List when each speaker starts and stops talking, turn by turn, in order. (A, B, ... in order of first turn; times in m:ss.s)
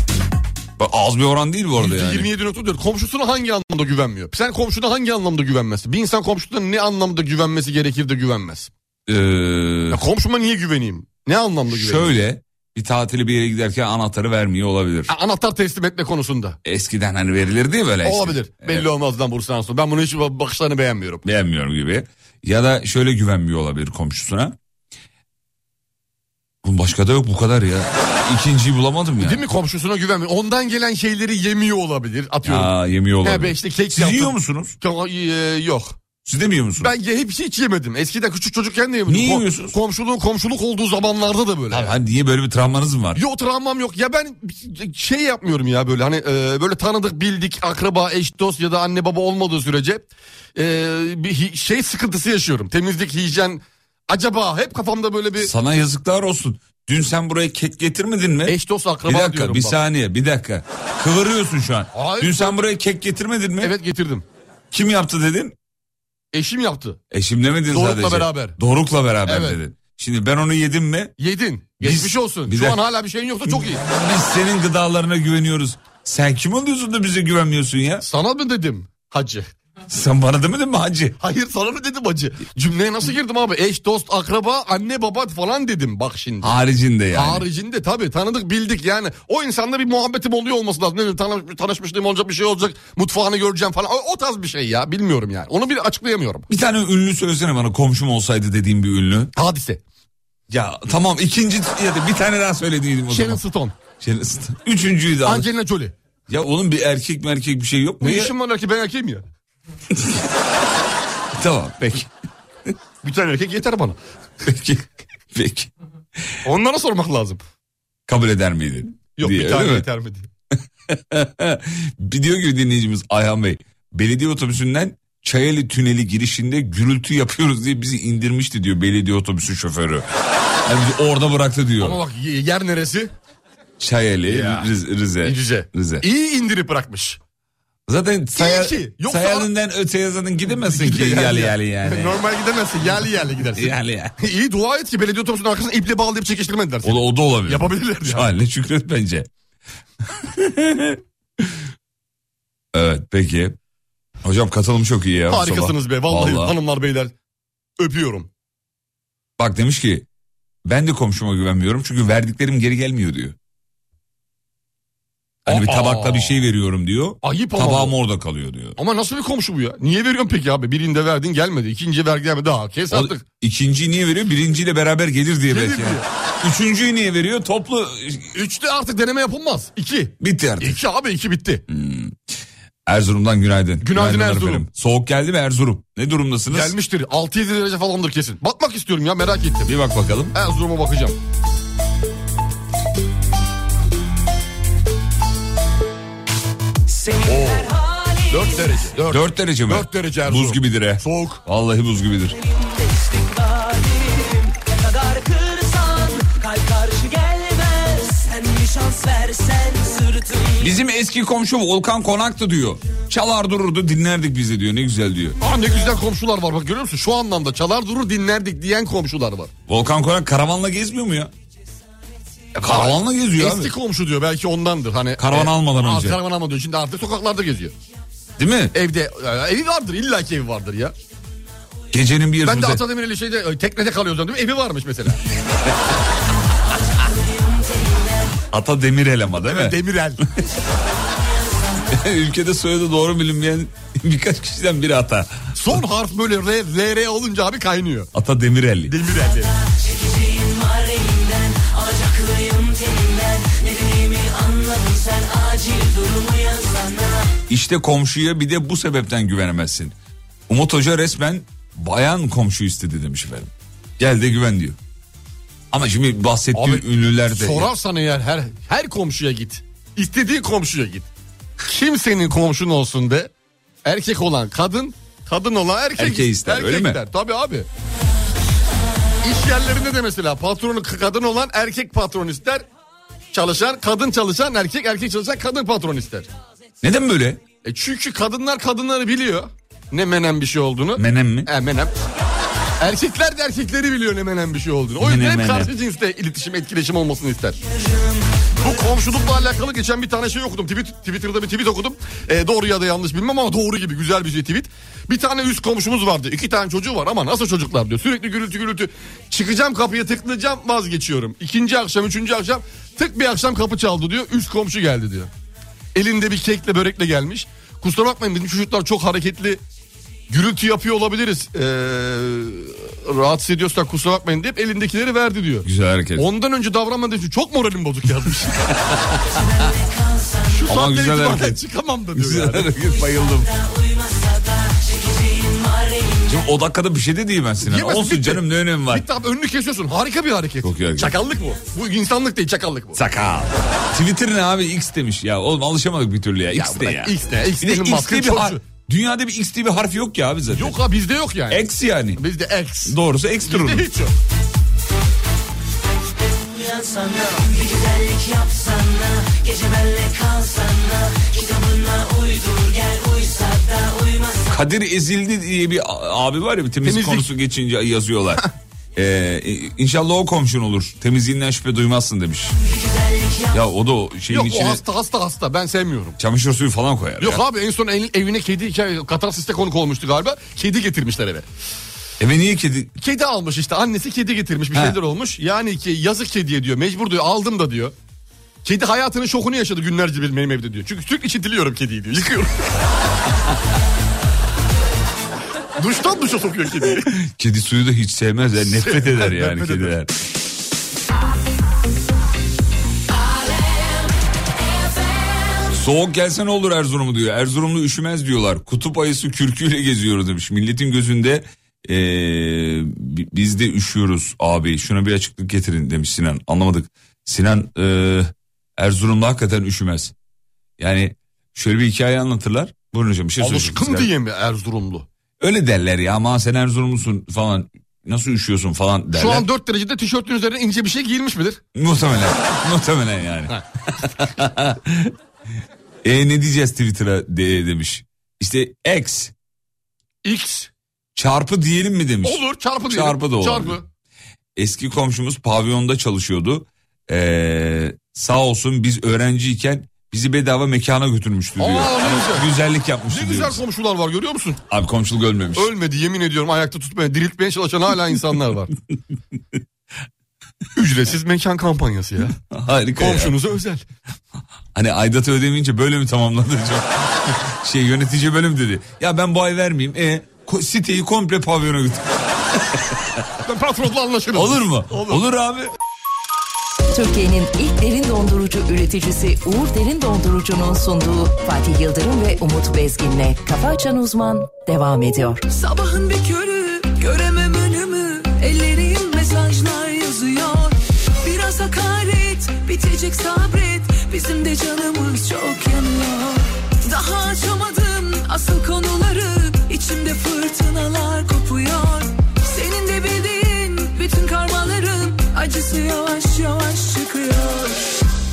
0:00.8-0:02.3 A
0:01.8-0:08.7 B
0:09.1-0:10.0 A
0:09.9-0:12.2 B
0:11.7-0:15.1 A
0:15.1-0:16.6 B
0:16.6-0:18.9 A
0:18.0-0:21.2 B
0:21.2-0:24.6 A
0:26.6-0:29.4 A
0:29.2-0:36.0 B
0:32.4-0:34.8 A
0:36.2-0:36.9 A
0:36.8-0:41.9 B
0:39.1-0:39.8 A
0:41.7-0:43.2 A
0:43.1-0:55.5 B
0:55.4-1:03.7 A
0:58.4-0:59.8 B
1:01.9-1:02.6 B
1:03.6-1:04.2 B
1:04.7-1:05.5 A
1:06.3-1:07.0 B
1:07.1-1:11.1 A
1:07.7-1:08.6 B
1:09.2-1:09.6 B
1:11.2-1:13.8 B
1:11.8-1:12.8 A
1:13.5-1:18.0 A
1:18.0-1:19.5 B
1:19.9-1:21.2 A
1:21.2-1:26.6 B
1:26.4-1:27.4 A
1:27.1-1:36.4 B
1:36.5-1:39.3 A
1:39.3-1:39.8 B
1:40.5-1:43.4 A
1:43.1-1:43.7 B
1:44.0-1:45.5 A
1:45.2-1:45.9 B
1:46.3-1:48.3 A
1:48.0-1:49.2 B
1:49.9-1:50.2 A
1:51.3-1:52.1 A
1:53.0-1:54.0 B
1:54.4-1:55.7 A
1:56.4-1:57.4 B
1:58.1-1:59.9 A
1:59.2-2:00.3 B
2:00.9-2:10.1 A
2:10.6-2:12.0 A
2:11.8-2:13.1 B
2:13.8-2:16.0 A
2:14.3-2:14.7 B
2:15.2-2:17.2 B
2:17.9-2:22.2 A
2:18.3-2:19.5 B
2:20.6-2:28.3 B
2:23.5-2:24.1 A
2:26.8-2:29.3 A
2:30.1-2:31.5 A
2:32.7-2:33.6 A
2:34.2-2:36.6 A
2:35.3-2:37.1 B
2:37.8-2:38.3 B
2:39.4-2:40.0 A
2:40.6-2:43.4 A
2:45.4-2:46.4 B
2:45.5-2:48.8 A
2:47.2-2:47.9 B
2:48.8-2:53.2 B
2:52.9-2:58.3 A
2:55.5-2:56.0 B
2:58.3-3:01.6 B
3:00.2-3:00.8 A
3:01.7-3:02.2 A
3:02.8-3:06.7 A
3:03.8-3:04.6 B
3:06.5-3:09.7 B
3:09.6-3:10.3 A
3:10.3-3:11.2 B
3:16.9-3:18.9 C
3:17.2-3:17.7 B
3:18.3-3:21.4 B
3:19.1-3:22.4 A
3:22.5-3:30.7 C
3:30.6-3:35.4 A
3:35.4-3:39.5 B
3:39.7-3:41.3 A
3:42.6-3:43.7 A
3:42.6-3:47.7 B
3:45.2-3:46.2 A
3:48.4-3:48.7 A
3:48.7-3:50.9 B
3:51.9-3:52.8 A
3:52.4-3:55.2 B
3:57.0-3:58.2 C
3:58.5-3:59.8 A
3:59.4-4:00.2 B
4:01.2-4:01.8 C
4:01.9-4:05.8 A
4:05.6-4:08.1 B
4:08.1-4:08.9 A
4:08.9-4:09.5 B
4:09.4-4:17.3 C
4:17.5-4:19.9 A
4:20.5-4:24.8 A
4:25.7-4:27.7 A
4:26.5-4:31.1 B
4:31.6-4:33.3 B
4:33.8-4:37.7 B
4:36.0-4:37.0 A
4:39.2-4:42.6 B
4:43.3-4:46.3 B
4:46.8-4:47.4 A
4:47.6-4:51.9 B
4:51.0-4:51.5 A
4:52.8-4:57.6 B
4:55.0-4:55.7 A
4:58.6-5:15.3 B
5:15.9-5:19.6 B
5:20.3-5:28.7 B
5:25.6-5:26.3 A
5:29.4-5:30.6 C
5:30.5-5:32.7 B
5:30.7-5:31.6 A
5:32.1-5:33.5 A
5:33.0-5:36.3 C
5:36.3-5:39.0 A
5:37.6-5:43.0 B
5:40.6-5:41.2 A
5:42.9-5:50.8 A
5:46.5-5:48.6 B
5:50.5-5:54.1 B
5:51.5-5:52.2 A
5:52.8-5:53.9 A
5:56.4-6:04.5 C
6:04.5-6:12.5 A
6:06.8-6:07.3 B
6:12.6-6:13.6 C
6:13.5-6:14.8 A
6:14.3-6:16.2 B
6:16.2-6:17.4 A
6:17.2-6:21.4 B
6:22.2-6:22.9 A
6:23.0-6:27.9 B
6:28.6-6:32.7 B
6:35.8-6:37.1 B
6:37.0-6:40.1 A
6:38.7-6:39.9 B
6:45.7-7:00.1 A
7:00.8-7:04.1 A
7:03.4-7:05.0 B
7:05.4-7:09.5 A
7:09.1-7:11.6 B
7:11.7-7:15.1 A
7:16.0-7:19.3 A
7:20.2-7:20.7 B
7:21.2-7:23.8 A
7:22.2-7:23.8 B
7:24.6-7:33.6 A
7:31.6-7:32.5 B
7:33.1-7:34.6 B
7:34.7-7:35.7 A
7:35.5-7:38.7 B
7:40.8-7:42.4 B
7:42.5-7:43.4 A
7:43.0-7:43.8 B
7:44.7-7:53.2 A
7:53.4-7:55.2 B
7:54.3-7:55.7 A
7:56.9-8:05.4 D
8:05.5-8:27.9 E